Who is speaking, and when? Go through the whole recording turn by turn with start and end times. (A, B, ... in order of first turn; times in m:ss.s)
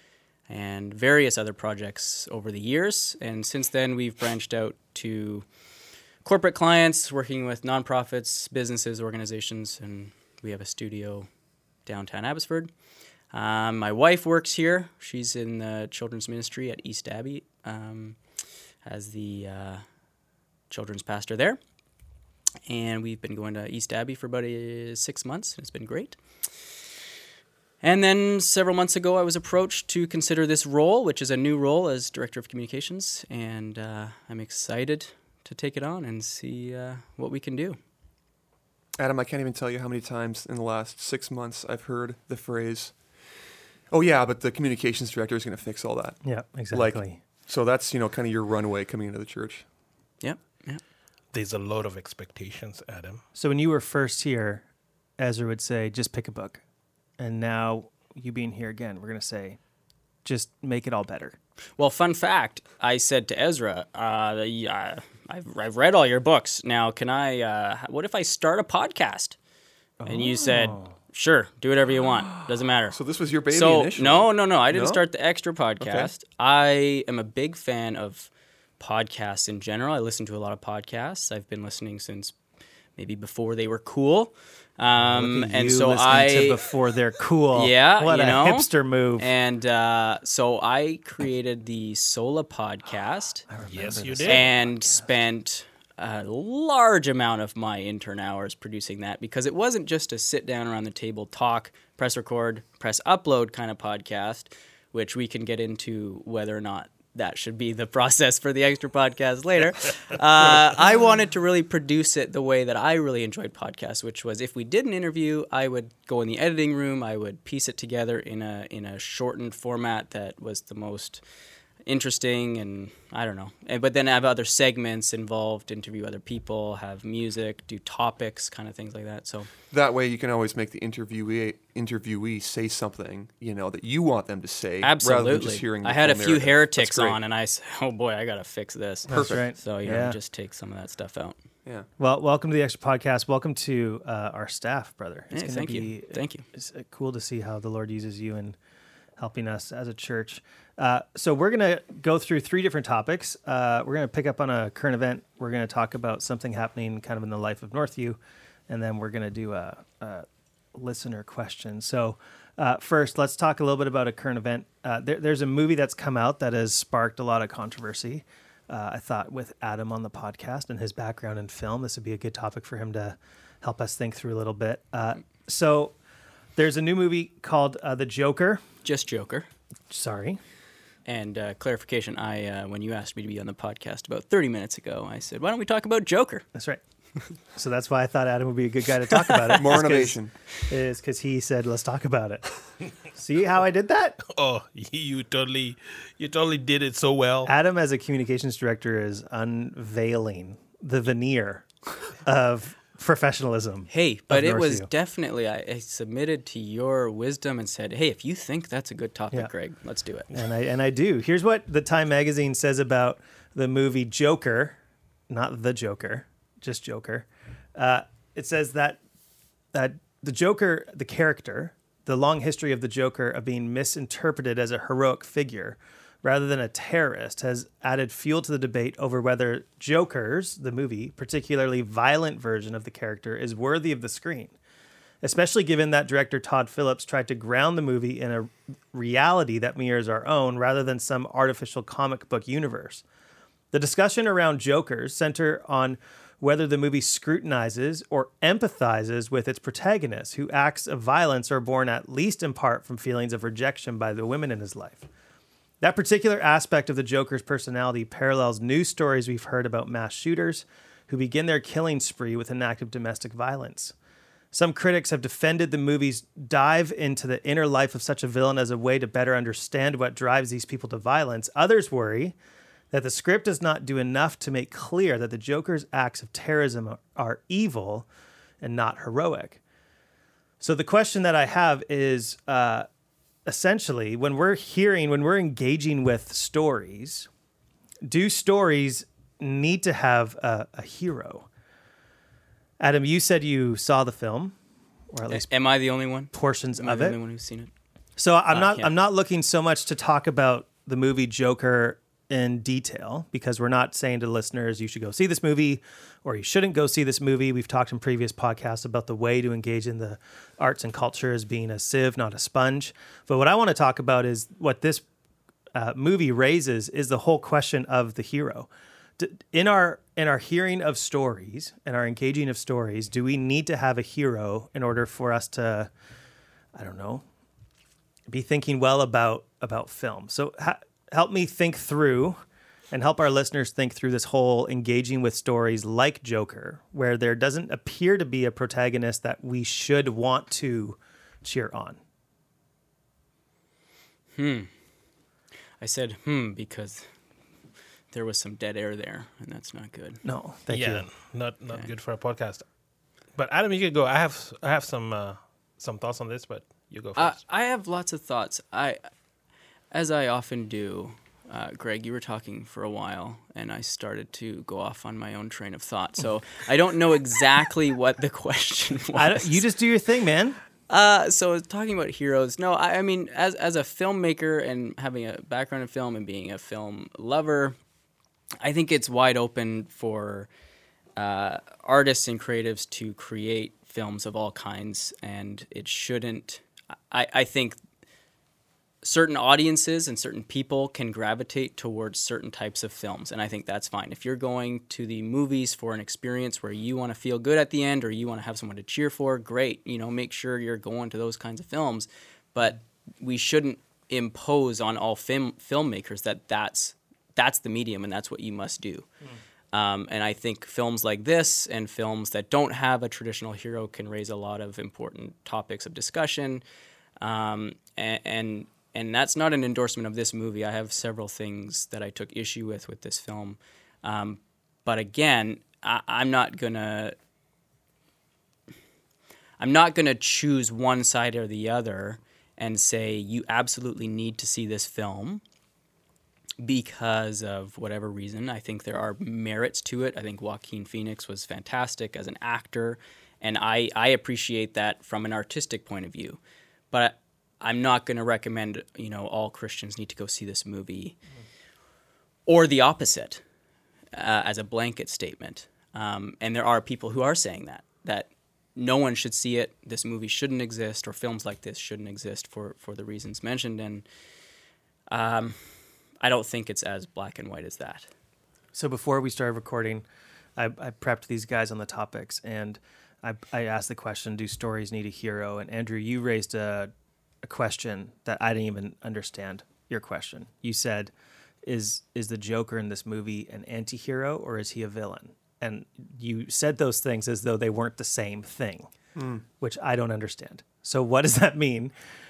0:00.5-0:05.4 A
0:06.2-0:11.3 A
0:11.8-0:12.7 A
0:13.3-0:18.2 A
0:18.8-0:19.8 A
0:20.7-0:21.6 A
0:22.7-0:26.8 A
0:27.8-0:37.8 A
0:39.0-0:43.1 B
0:43.9-0:49.6 B
0:46.2-0:47.2 C
0:50.2-0:50.8 A
0:51.3-0:53.2 D
0:53.4-0:54.6 C
0:55.2-0:56.6 C
0:57.2-0:59.6 C
1:00.2-1:01.4 C
1:01.8-1:09.4 A
1:10.0-1:10.9 C
1:10.0-1:13.0 A
1:12.9-1:15.0 B
1:13.5-1:22.3 A
1:15.8-1:16.1 B
1:23.0-1:26.6 A
1:25.0-1:29.3 C
1:27.5-1:33.5 A
1:33.5-1:35.0 C
1:33.7-1:34.5 D
1:34.2-2:01.2 A
2:01.8-2:09.5 A
2:09.7-2:17.2 B
2:14.8-2:21.4 A
2:19.1-2:20.2 C
2:19.1-2:19.4 B
2:22.0-2:28.6 C
2:25.3-2:26.4 A
2:29.2-2:56.0 C
2:56.5-2:58.6 C
2:58.8-2:59.5 A
2:59.9-3:00.4 C
3:01.0-3:06.4 A
3:06.5-3:06.8 C
3:07.5-3:14.2 C
3:09.2-3:09.6 A
3:09.5-3:10.3 B
3:14.3-3:17.5 D
3:17.4-3:24.9 C
3:23.9-3:30.3 A
3:30.3-3:34.8 C
3:35.3-3:39.0 C
3:39.7-3:54.5 C
3:55.2-4:03.0 C
4:03.7-4:15.1 C
4:15.8-4:23.9 C
4:24.5-4:32.4 C
4:32.9-4:38.1 C
4:38.6-4:39.6 C
4:40.6-4:42.9 C
4:43.4-4:47.3 C
4:48.0-4:51.5 C
4:52.8-4:54.6 C
4:55.1-4:55.5 C
4:55.3-4:57.7 A
4:56.3-4:57.2 C
4:58.2-5:15.0 C
4:58.5-4:58.9 A
5:15.7-5:25.9 C
5:26.8-5:27.2 C
5:28.3-5:32.4 C
5:32.9-5:42.0 C
5:44.4-5:44.7 A
5:45.8-5:47.1 A
5:48.1-5:50.2 A
5:50.2-5:51.1 C
5:50.7-5:52.6 D
5:53.4-5:57.4 D
5:57.2-5:59.1 A
5:59.9-6:09.6 A
6:09.1-6:10.6 C
6:10.9-6:17.8 A
6:18.6-6:20.5 A
6:21.2-6:27.8 A
6:29.0-6:49.1 A
6:49.7-6:56.6 A
6:57.2-7:07.2 A
7:09.6-7:15.4 A
7:16.6-7:26.4 A
7:26.9-7:31.2 A
7:32.5-7:33.4 A
7:34.1-7:44.0 A
7:45.1-7:45.6 A
7:46.2-7:48.1 A
7:48.7-7:56.9 C
7:57.4-8:01.1 C
8:01.6-8:08.9 C
8:09.2-8:09.4 B
8:09.6-8:11.9 C